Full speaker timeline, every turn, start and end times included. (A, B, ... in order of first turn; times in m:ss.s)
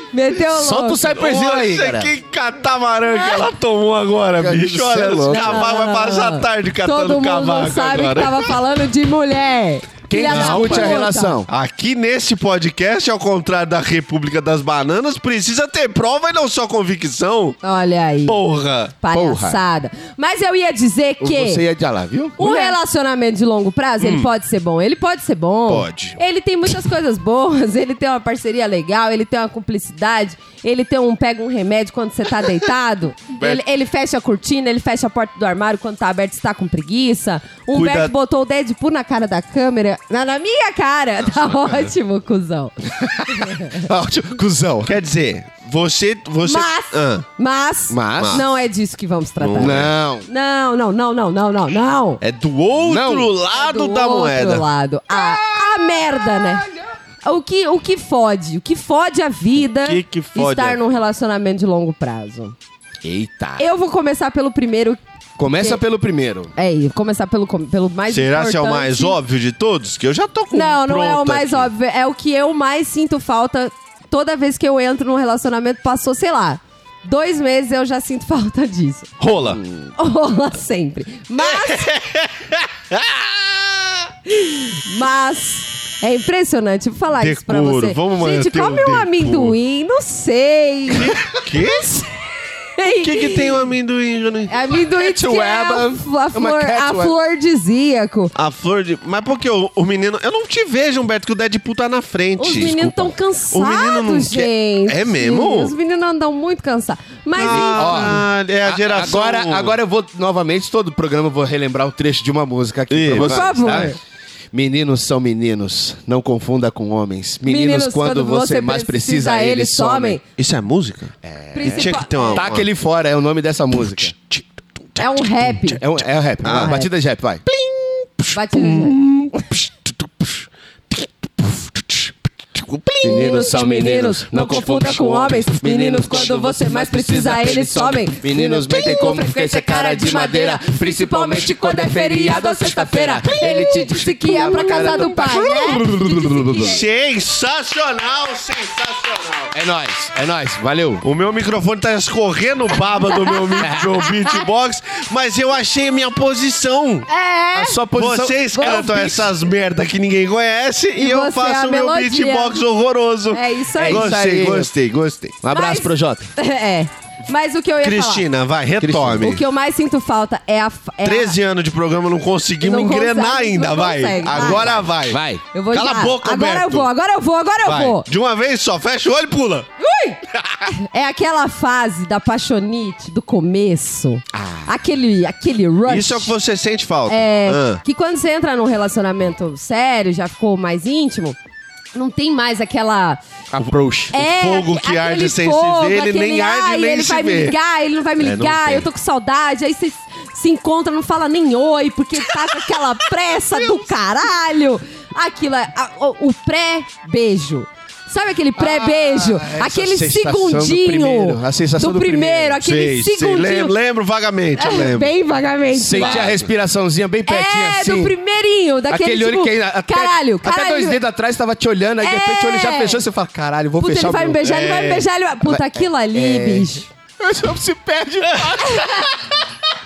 0:00.1-0:01.1 A
0:00.4-0:02.1 B
0:01.1-0:08.5 C
0:04.4-0:05.7 B
0:05.3-0:11.4 A
0:10.1-0:11.5 B
0:10.3-0:17.6 C
0:17.6-0:18.4 A
0:18.3-0:19.0 C
0:19.0-0:21.6 A
0:19.1-0:19.6 B
0:21.2-0:22.8 B
0:22.4-0:43.8 A
0:24.0-0:24.3 C
0:25.7-0:26.2 C
0:37.7-0:38.1 C
0:41.3-0:41.9 C
0:43.0-0:45.0 B
0:44.8-0:47.3 C
0:46.4-0:52.2 A
0:47.9-0:48.4 B
0:48.2-0:48.5 C
0:49.4-0:49.9 C
0:49.6-0:50.3 B
0:52.2-0:54.7 C
0:52.8-0:53.3 B
0:53.5-0:56.6 A
0:55.1-0:56.8 B
0:57.2-1:02.6 A
0:59.8-1:00.8 C
1:03.0-1:03.6 B
1:03.6-1:05.8 A
1:05.4-1:06.5 B
1:06.6-1:09.2 A
1:08.1-1:11.7 C
1:10.5-1:19.1 A
1:19.2-1:19.6 C
1:19.5-1:19.9 B
1:20.0-1:21.9 A
1:21.4-1:24.1 C
1:24.3-1:32.0 A
1:27.2-1:29.6 C
1:31.0-1:31.9 C
1:32.8-1:33.6 A
1:33.0-1:34.6 C
1:34.5-1:38.3 A
1:34.9-1:37.2 B
1:38.4-1:45.7 C
1:42.4-1:48.2 A
1:47.4-1:49.8 C
1:47.4-1:54.0 B
1:52.9-1:53.9 C
1:53.1-1:54.0 A
1:54.5-2:00.2 B
1:57.4-2:00.2 A
2:00.4-2:02.7 C
2:01.2-2:04.1 B
2:01.5-2:02.5 A
2:04.2-2:05.2 C
2:05.0-2:05.8 A
2:05.6-2:07.4 B
2:06.4-2:06.8 C
2:06.4-2:06.9 A
2:07.5-2:13.4 C
2:08.3-2:09.0 A
2:13.0-2:26.9 B
2:13.0-2:26.8 A
2:26.6-2:29.5 C
2:29.5-2:31.0 B
2:31.0-2:37.1 C
2:33.3-2:33.7 A
2:33.6-2:33.9 B
2:37.1-2:37.8 A
2:37.5-2:39.4 B
2:37.9-2:45.4 C
2:38.5-2:39.0 A
2:41.0-2:42.6 A
2:43.3-2:44.2 A
2:43.8-2:44.7 B
2:45.4-2:46.3 B
2:45.5-2:48.3 A
2:47.8-2:49.4 C
2:48.8-2:49.4 B
2:49.2-2:51.4 A
2:51.0-2:56.9 C
2:52.6-2:54.8 A
2:54.3-2:55.4 B
2:55.5-2:58.1 A
2:57.6-2:59.7 C
2:59.8-3:00.2 A
3:00.4-3:00.7 C
3:00.7-3:06.3 A
3:04.3-3:04.7 B
3:05.9-3:07.8 C
3:07.1-3:11.4 A
3:11.9-3:13.2 A
3:13.5-3:14.2 B
3:14.1-3:33.8 A
3:14.1-3:17.6 C
3:18.2-3:18.9 C
3:23.6-3:23.9 C
3:28.6-3:32.6 B
3:32.6-3:35.1 C
3:34.6-3:36.3 A
3:35.7-3:38.2 B
3:35.9-3:36.5 C
3:37.3-3:41.0 A
3:38.9-3:44.4 B
3:42.0-3:43.0 A
3:43.8-3:46.9 A
3:44.4-3:45.1 C
3:45.4-3:49.3 B
3:48.6-3:49.1 A